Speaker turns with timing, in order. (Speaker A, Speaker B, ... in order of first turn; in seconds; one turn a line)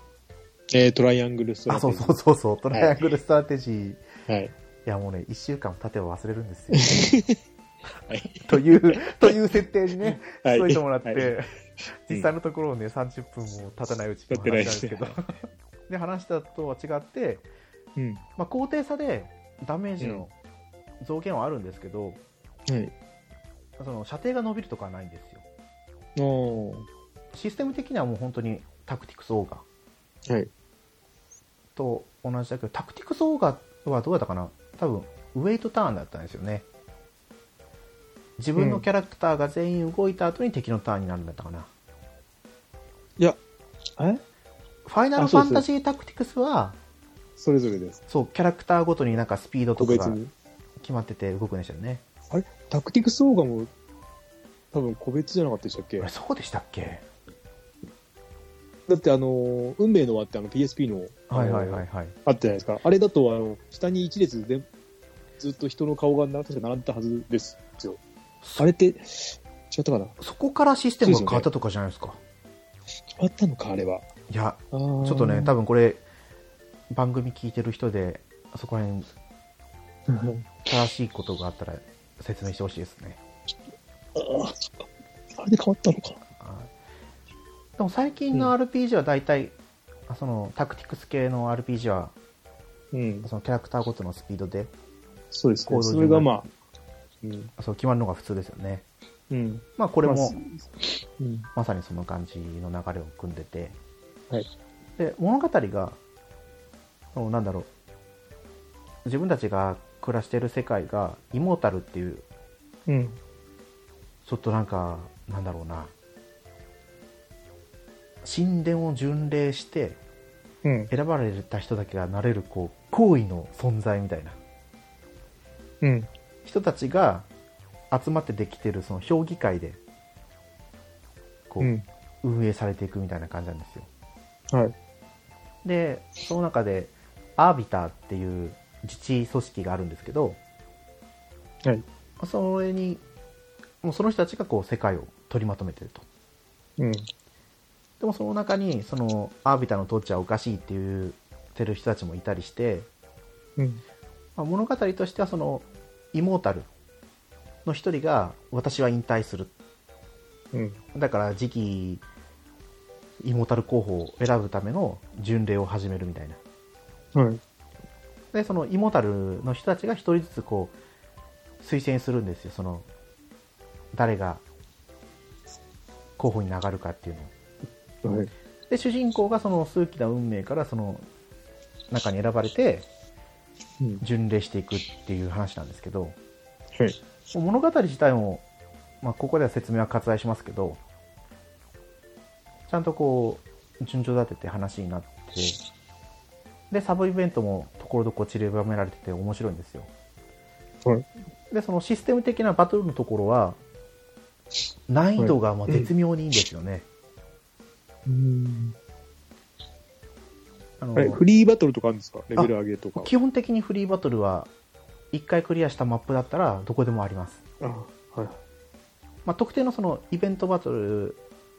Speaker A: 0.7-2.1
Speaker B: 1.7-4.0
Speaker A: 2.7-3.1
Speaker A: 4.3-4.5
Speaker B: 4.8-7.1
Speaker A: 6.8-7.3
Speaker A: 8.1-9.3
Speaker B: 8.4-11.5
Speaker A: 10.0-11.3
Speaker B: 12.1-17.5
Speaker A: 14.3-15.2
Speaker A: 17.9-18.2
Speaker B: 18.4-20.3
Speaker B: 21.0-22.2
Speaker A: 22.7-22.9
Speaker B: 23.8-25.4
Speaker A: 26.1-26.9
Speaker B: 27.3-29.6
Speaker B: 31.8-36.6
Speaker B: 38.4-41.7
Speaker A: 38.5-38.8
Speaker A: 44.0-44.2
Speaker B: 44.9-46.8
Speaker A: 45.2-45.6
Speaker A: 47.4-48.0
Speaker B: 48.1-50.2
Speaker A: 49.8-50.3
Speaker B: 50.8-52.0
Speaker A: 52.3-53.7
Speaker A: 54.7-56.1
Speaker B: 56.0-57.0
Speaker A: 58.9-64.7
Speaker B: 61.3-62.1
Speaker A: 65.4-68.0
Speaker A: 68.6-70.2
Speaker B: 70.2-72.2
Speaker A: 71.0-71.5
Speaker A: 73.1-74.0
Speaker B: 74.3-76.0
Speaker A: 74.7-75.5
Speaker B: 76.9-79.1
Speaker A: 80.1-80.7
Speaker B: 80.7-83.2
Speaker A: 84.1-86.2
Speaker B: 86.4-86.7
Speaker B: 87.8-89.5
Speaker B: 90.1-92.1
Speaker A: 92.9-93.3
Speaker B: 93.2-94.7
Speaker A: 95.3-96.5
Speaker B: 95.7-96.3
Speaker A: 97.2-97.5
Speaker B: 97.6-98.8
Speaker A: 99.3-101.5
Speaker B: 99.8-100.3
Speaker B: 101.5-103.8
Speaker B: 105.0-106.0
Speaker B: 107.1-107.7
Speaker B: 109.0-112.2
Speaker A: 112.9-113.2
Speaker B: 114.2-115.9
Speaker B: 118.2-120.0
Speaker A: 120.6-120.9
Speaker B: 120.9-124.4
Speaker A: 125.8-126.1
Speaker B: 126.4-127.3
Speaker B: 127.9-129.8
Speaker B: 131.5-133.9
Speaker B: 135.6-140.4
Speaker B: 142.2-143.0
Speaker B: 143.8-146.0
Speaker A: 146.8-147.1
Speaker B: 148.0-152.9
Speaker A: 153.6-153.8
Speaker B: 154.3-156.7
Speaker B: 157.6-159.5
Speaker A: 160.5-160.8
Speaker B: 160.9-162.0
Speaker B: 163.2-166.4
Speaker A: 167.1-167.4
Speaker B: 168.3-170.7
Speaker B: 171.6-172.9
Speaker B: 173.9-174.4
Speaker B: 176.2-177.3
Speaker A: 178.0-178.3
Speaker B: 178.7-181.1
Speaker B: 181.9-182.9
Speaker B: 184.0-186.2
Speaker B: 187.3-188.4
Speaker B: 189.0-190.8
Speaker B: 192.7-195.6
Speaker B: 196.7-199.9
Speaker B: 201.5-203.6
Speaker B: 204.9-206.8
Speaker A: 205.2-205.9
Speaker A: 208.1-208.8
Speaker B: 210.8-211.2
Speaker A: 210.9-213.1
Speaker B: 212.3-214.5
Speaker B: 215.1-217.4
Speaker A: 217.6-218.4
Speaker B: 219.2-221.2